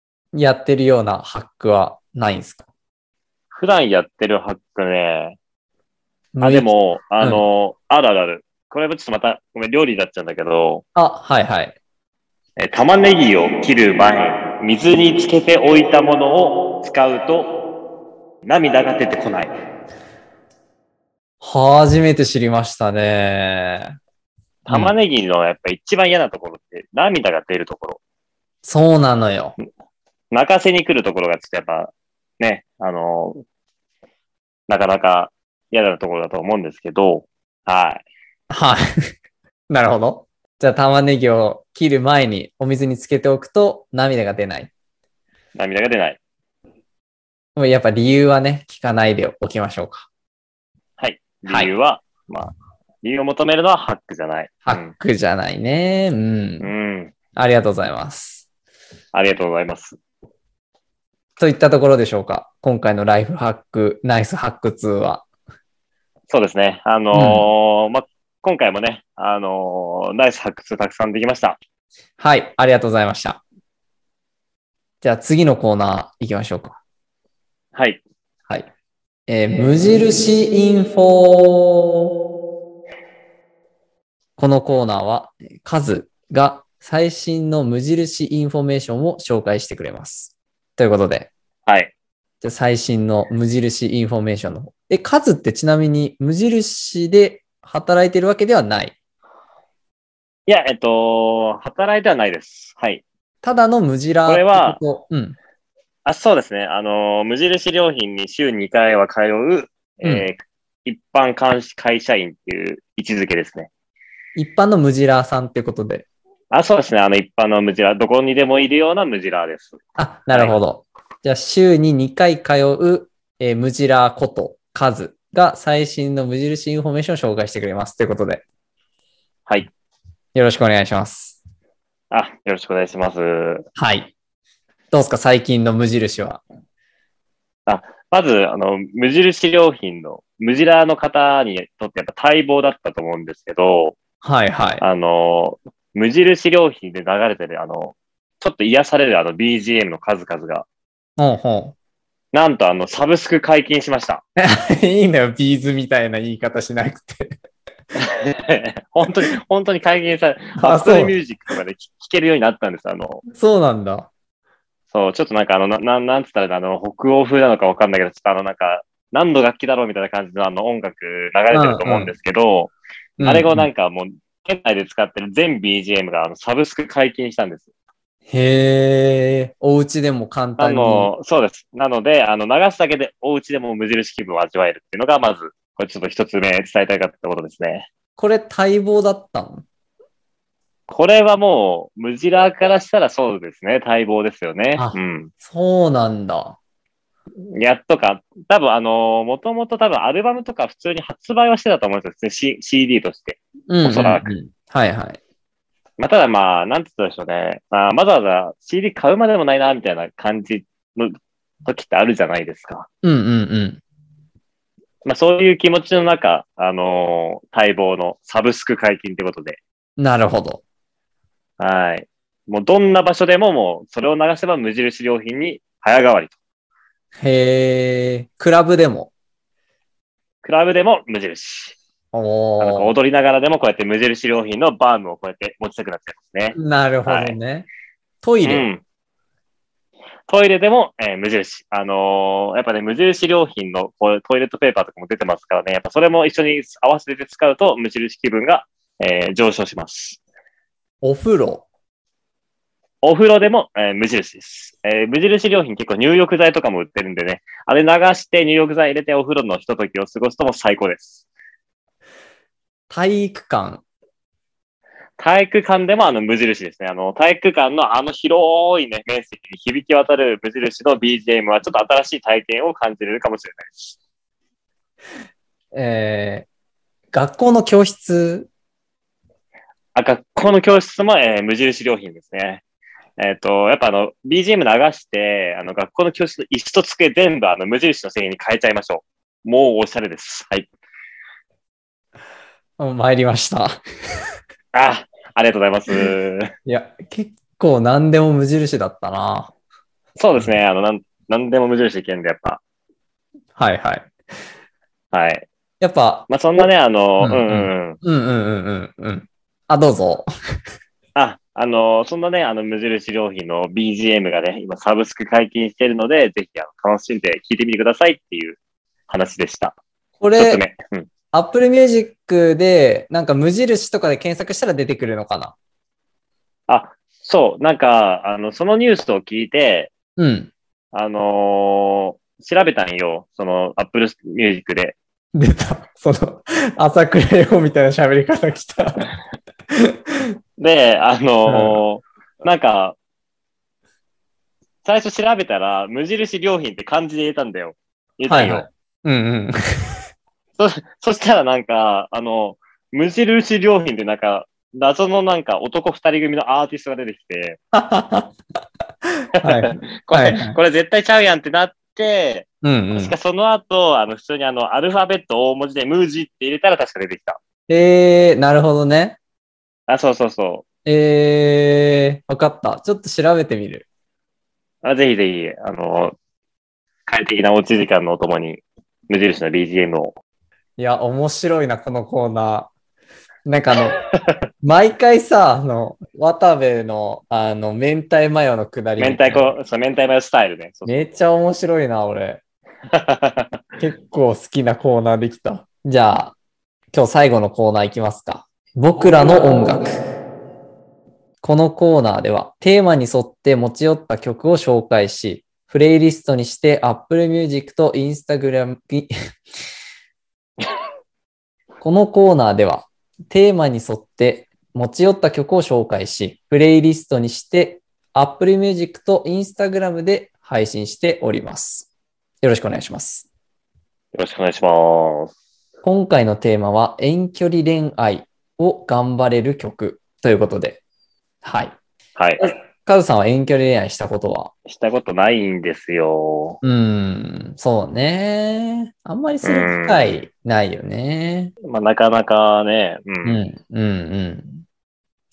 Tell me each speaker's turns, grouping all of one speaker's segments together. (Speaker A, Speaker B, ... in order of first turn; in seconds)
Speaker A: 0.3-2.6, 6.3-6.7, 10.9-11.8, 21.4-23.9, 28.6-29.6, 38.5-38.9, 39.7-44.7, 47.5-50.1, 54.6-56.7, 57.3-58.4, 61.4-65.2, 67.1-67.4, 72.2-73.4, 75.0-76.8, 79.3-82.1, 84.4-91.3, 92.4-98.9, 103.4-105.4, 114.3-116.0, 120.0-128.4, 130.3-131.4, 133.8-134.1, 134.9-136.4, 144.2-144.8, 151.2-151.7, 154.3-157.3, 160.6-161.1, 163.3-164.1, 171.5-172.1, 173.2-173.7, 178.3-181.1, 188.2-189.6, 194.8-196.6, 203.7-205.2, 213.0-213.8, 220.0-220.6, 227.2-229.1, 232.1-232.9, 236.5-237.7, 238.2-238.7, 251.0-251.6, 262.9-263.8, 275.7-276.5, 277.1-278.5, 292.8-293.8, 296.6-299.5, 303.6-304.1, 305.8-306.6, 307.2-310.3, 320.2-320.6, 321.3-325.5, 330.2-330.5, 335.3-339.1, 339.7-340.3, 341.5-341.8, 348.3-350.0, 357.7-358.3, 359.4-360.6, 362.6-363.1, 367.7-369.2, 370.8-373.9, 380.8-382.7, 383.4-384.0, 384.6-389.5, 390.9-392.4, 393.8-396.3, 396.9-399.9, 401.4-409.1, 411.8-421.9, 422.4-423.3, 425.8-430.8, 431.4-431.8, 432.4-434.5, 436.6-441.5, 443.2-444.6
Speaker B: 3.5-5.4, 6.4-10.8, 12.6-17.5, 18.4-19.5, 24.6-28.0, 30.3-33.4, 34.7-38.0, 45.5-46.2, 51.0-54.9, 56.6-57.1, 59.1-60.0, 66.3-71.6, 77.7-78.0, 91.7-91.9, 100.5-103.0, 104.2-104.8, 106.0-113.7, 116.5-119.8, 120.3-120.6, 132.1-133.7, 137.7-144.0, 144.8-150.7, 152.3-154.2, 157.9-163.2, 164.9-177.7, 180.6-187.9, 190.9-195.3, 197.5-204.3, 206.0-212.9, 215.0-219.6, 221.6-226.3, 230.4-231.8, 232.6-237.3, 238.4-238.8, 240.3-250.2, 253.0-261.2, 265.2-274.0, 279.9-282.6, 283.2-290.7, 294.7-296.5, 300.2-302.6, 305.1-305.5, 306.3-308.0, 311.1-318.6, 319.1-319.8, 320.4-321.1, 326.7-329.9, 330.9-335.0, 340.6-342.9, 344.8-348.7, 350.6-357.6, 359.4-367.4, 369.9-370.6, 374.8-376.1, 377.1-380.2, 389.0-391.1, 392.9-393.6, 424.1-425.3, 432.1-432.5, 434.6-436.6, 439.4-440.2, 441.6-443.4